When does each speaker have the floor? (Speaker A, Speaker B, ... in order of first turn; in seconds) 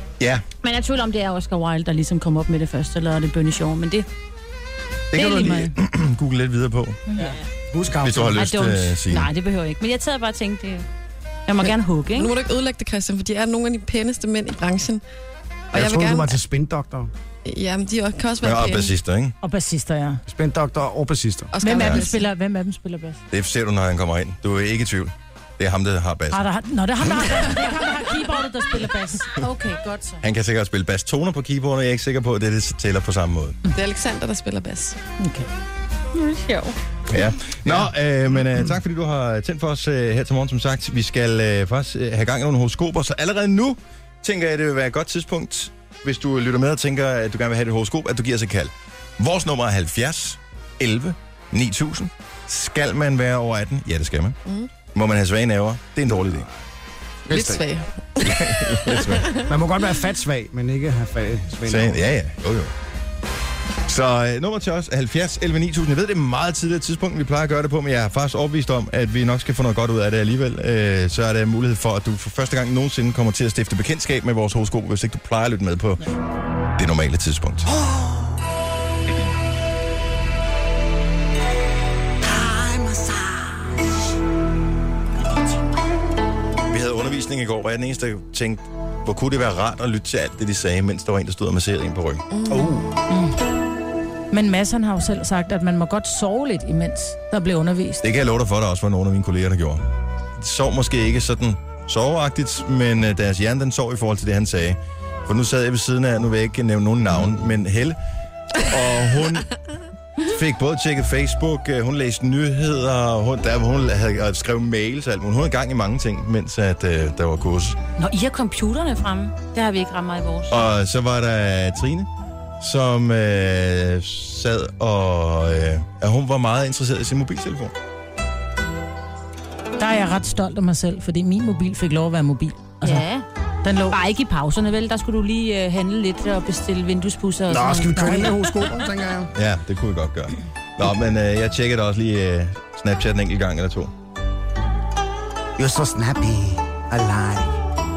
Speaker A: 0.6-4.1, 5.1-5.7, 7.1-7.5, 8.4-10.8, 11.5-12.3, 36.2-36.7, 118.0-120.6, 132.8-133.3, 133.9-138.4
Speaker B: 5.1-7.0, 8.0-9.3, 18.4-19.4, 21.7-22.1, 23.3-26.5, 30.2-33.6, 37.1-56.5, 58.2-59.3, 61.7-62.7, 63.9-76.0, 76.8-77.7, 86.7-92.2, 98.0-99.8, 100.4-108.0, 108.6-109.5, 110.2-117.8, 120.5-122.1, 122.6-127.7, 139.3-143.9
Speaker C: 7.2-8.4, 15.7-17.1, 20.3-21.5, 57.3-57.6, 59.5-62.1, 82.4-83.1, 92.5-92.9, 137.5-139.3, 145.6-147.6
Speaker D: 11.6-15.0, 15.7-16.4, 17.5-18.9, 21.5-22.2, 33.7-35.0, 54.5-54.7, 57.3-59.5, 92.3-92.8
Speaker E: 19.4-20.2, 21.6-23.2, 26.3-30.2, 35.2-35.5, 93.1-93.4, 94.3-98.0, 129.8-133.1, 133.6-134.0